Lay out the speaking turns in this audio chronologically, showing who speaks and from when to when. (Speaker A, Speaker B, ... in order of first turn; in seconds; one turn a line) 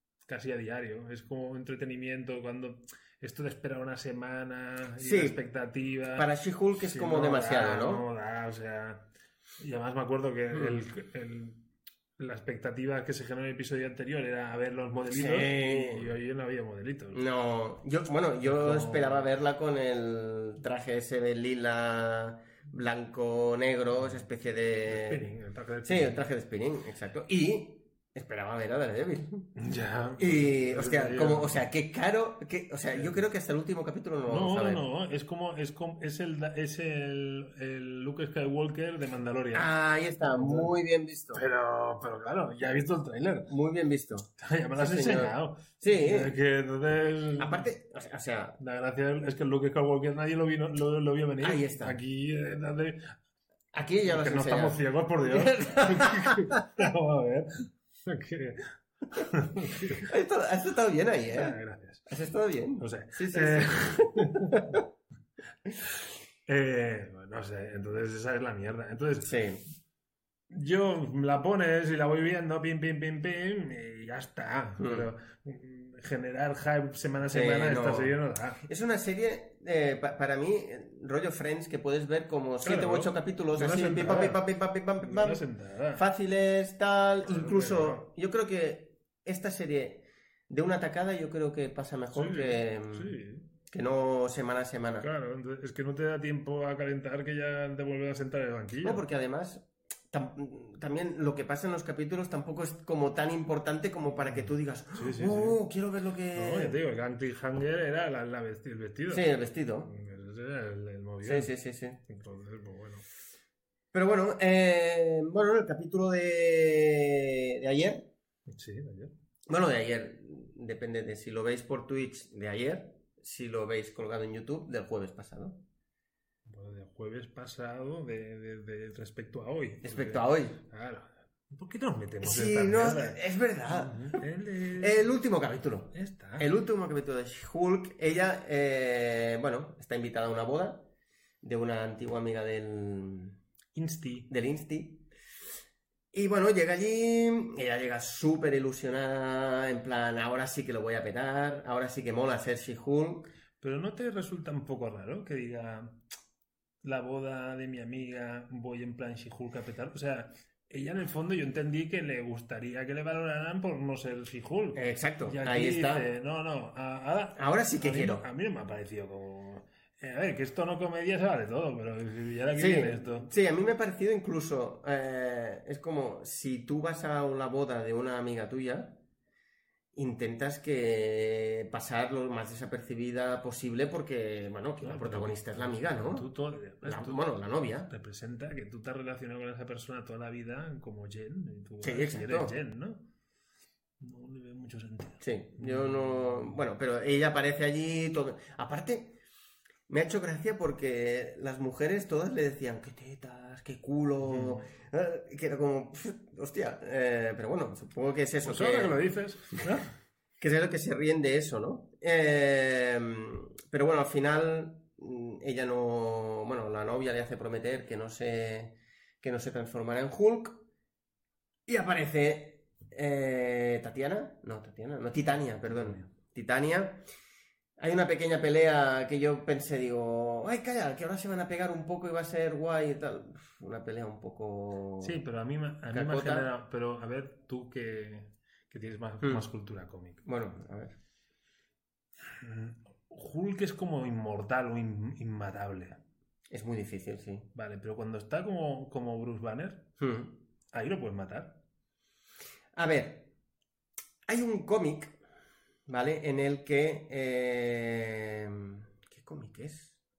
Speaker A: 0.2-9.1
Speaker B: 5.0-5.4
Speaker B: 6.1-8.0
Speaker A: 9.6-11.6
Speaker B: 10.5-10.8
Speaker A: 12.2-17.2
Speaker B: 15.1-16.1
Speaker B: 17.1-25.3
Speaker A: 18.4-19.3
Speaker A: 24.9-26.2
Speaker B: 25.8-29.5
Speaker A: 29.6-31.6
Speaker B: 30.2-34.8
Speaker A: 32.9-33.2
Speaker A: 34.3-39.7
Speaker B: 39.5-41.4
Speaker A: 40.2-40.7
Speaker A: 41.3-43.5
Speaker B: 43.5-46.3
Speaker A: 44.4-47.7
Speaker B: 47.4-48.6
Speaker A: 48.6-53.1
Speaker B: 51.4-52.0
Speaker B: 53.7-56.7
Speaker A: 54.0-60.1
Speaker B: 59.2-64.8
Speaker A: 61.3-62.1
Speaker A: 62.8-64.8
Speaker A: 66.5-69.4
Speaker B: 69.2-69.6
Speaker A: 70.5-78.6
Speaker B: 74.8-75.1
Speaker B: 77.3-95.1
Speaker A: 82.6-84.4
Speaker A: 85.0-86.0
Speaker A: 87.2-88.1
Speaker A: 92.1-93.5
Speaker A: 95.0-99.0
Speaker B: 98.8-106.8
Speaker A: 104.3-105.6
Speaker A: 106.3-109.3
Speaker B: 109.1-109.9
Speaker A: 109.8-111.5
Speaker B: 111.2-112.0
Speaker A: 112.0-113.0
Speaker B: 113.9-118.0
Speaker A: 118.5-119.1
Speaker B: 119.5-125.6
Speaker A: 126.5-135.1
Speaker B: 129.8-130.6
Speaker B: 132.2-140.9
Speaker A: 135.9-136.5
Speaker B: 141.4-143.4
Speaker A: 143.7-144.3
Speaker B: 144.3-145.1
Speaker B: 146.1-153.3
Speaker A: 153.6-156.0
Speaker A: 156.8-173.3
Speaker B: 164.7-166.1
Speaker B: 167.3-168.2
Speaker B: 172.5-178.9
Speaker B: 179.9-186.3
Speaker A: 184.8-187.3
Speaker B: 186.8-187.9
Speaker A: 187.9-193.0
Speaker B: 191.8-192.5
Speaker A: 194.0-196.6
Speaker B: 195.2-199.2
Speaker B: 199.9-209.0
Speaker A: 204.2-204.6
Speaker A: 208.4-209.9
Speaker B: 210.4-220.6
Speaker B: 221.7-227.0
Speaker A: 225.7-226.1
Speaker B: 227.8-235.2
Speaker A: 235.0-240.2
Speaker B: 235.9-236.5
Speaker B: 239.2-239.5
Speaker B: 240.2-240.9
Speaker A: 242.2-246.0
Speaker B: 246.5-247.5
Speaker A: 247.5-249.9
Speaker B: 250.0-250.4
Speaker A: 250.7-251.6
Speaker B: 252.8-253.3
Speaker B: 254.3-255.2
Speaker B: 255.9-260.0